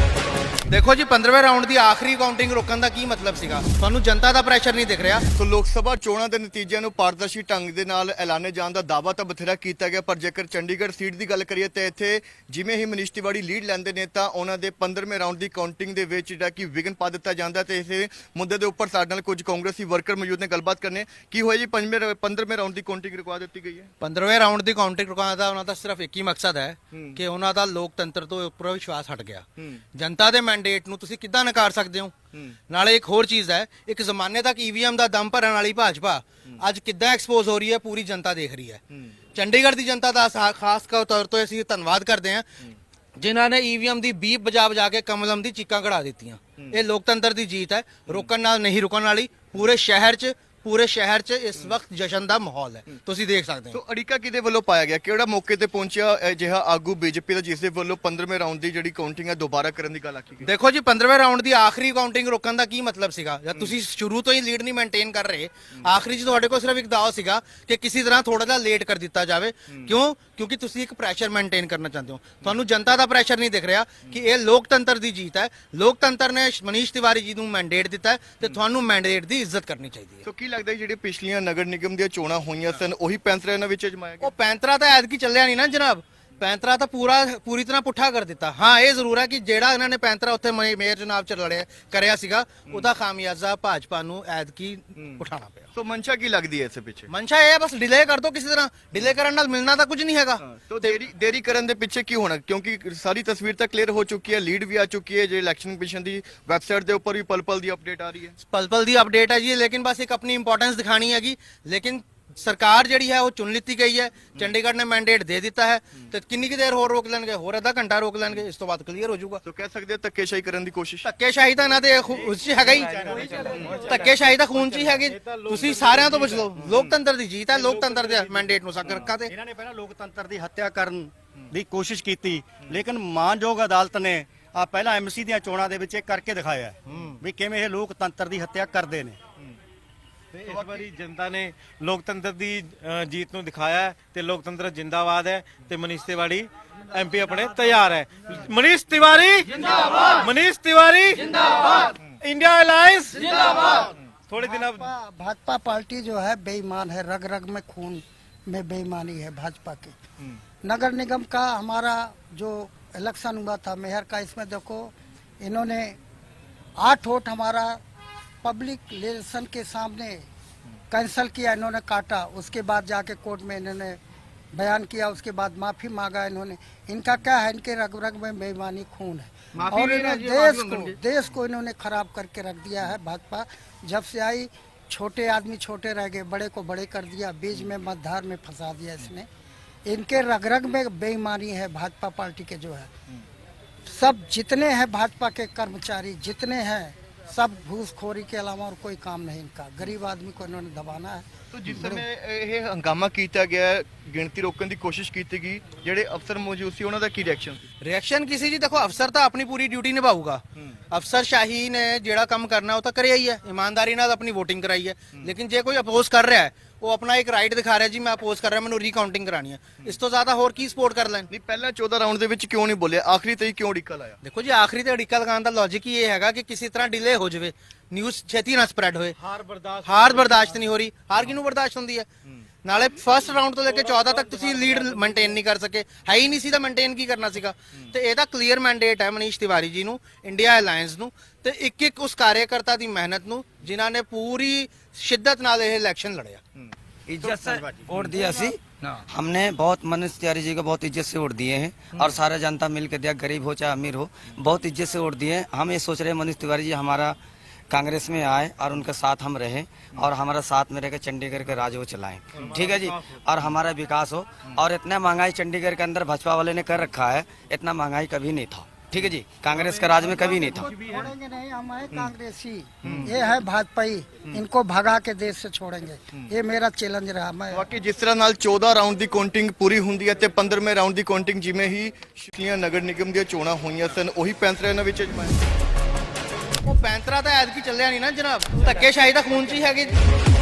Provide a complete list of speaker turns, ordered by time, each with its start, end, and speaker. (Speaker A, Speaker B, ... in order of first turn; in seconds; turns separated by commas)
Speaker A: 0.7-5.2, Speaker B: 5.3-23.9, Speaker A: 24.0-32.1, Speaker A: 32.7-38.8, Speaker A: 39.3-42.5, Speaker A: 43.2-53.8, Speaker B: 53.7-60.5, Speaker A: 60.4-80.2, Speaker B: 80.2-84.3, Speaker A: 84.2-95.7, Speaker B: 95.7-97.1, Speaker A: 97.1-100.9, Speaker B: 100.5-108.3, Speaker A: 108.5-119.4, Speaker B: 119.4-121.0, Speaker A: 121.0-123.0, Speaker C: 122.1-126.9, Speaker A: 123.7-129.3, Speaker C: 127.5-128.8, Speaker D: 128.9-139.2, Speaker A: 136.8-137.2, Speaker C: 140.3-154.9, Speaker E: 154.4-159.9, Speaker E: 160.6-166.0, Speaker E: 166.8-167.8, Speaker E: 168.4-170.3, Speaker E: 170.9-174.0, Speaker E: 174.5-189.3, Speaker A: 179.6-181.0, Speaker E: 189.8-192.9, Speaker E: 193.9-202.0, Speaker B: 201.5-207.6, Speaker A: 207.8-221.3, Speaker B: 221.3-224.2, Speaker A: 224.2-229.1, Speaker C: 229.2-230.7, Speaker A: 229.8-232.1, Speaker A: 232.6-246.4, Speaker C: 233.7-235.4, Speaker F: 247.1-257.2, Speaker D: 247.2-248.2, Speaker F: 257.7-270.7, Speaker C: 262.3-263.2, Speaker C: 269.5-271.1, Speaker E: 270.0-277.7, Speaker B: 272.8-273.1, Speaker B: 277.5-285.4, Speaker A: 286.6-289.9